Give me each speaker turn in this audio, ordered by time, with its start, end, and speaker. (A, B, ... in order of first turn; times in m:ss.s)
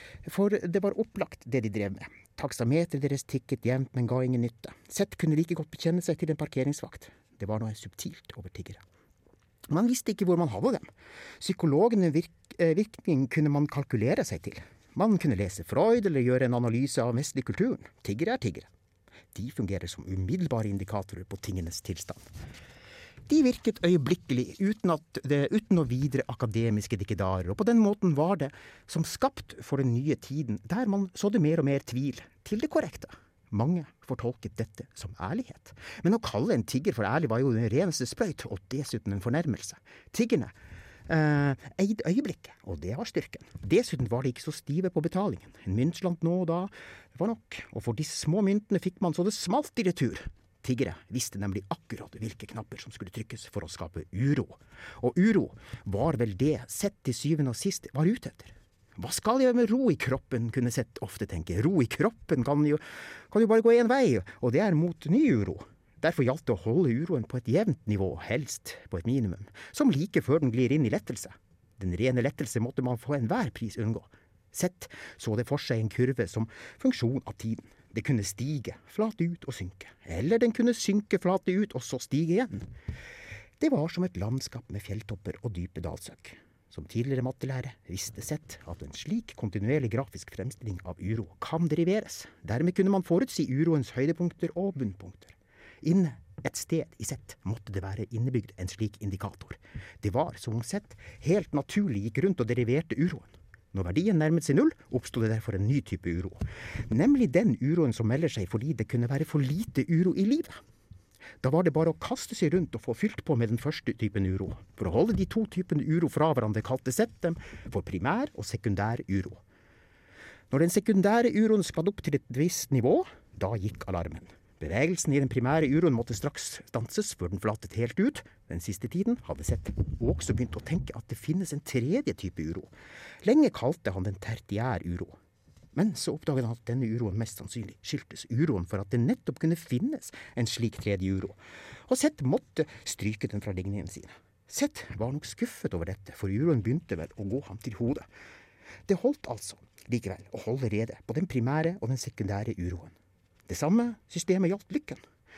0:00.2-0:08.8 A
0:09.7-0:10.9 A
0:11.4-0:18.7 A
0:19.3-0:22.2 A
0:23.3-0:40.5 A
0:41.1-1:22.6 A
1:23.6-1:50.6 A
1:51.4-1:59.4 A
2:00.5-2:12.7 A
2:13.2-2:15.2 A
2:15.7-2:21.4 A
2:21.9-2:28.1 A
2:28.9-2:32.9 A
2:33.5-2:35.0 A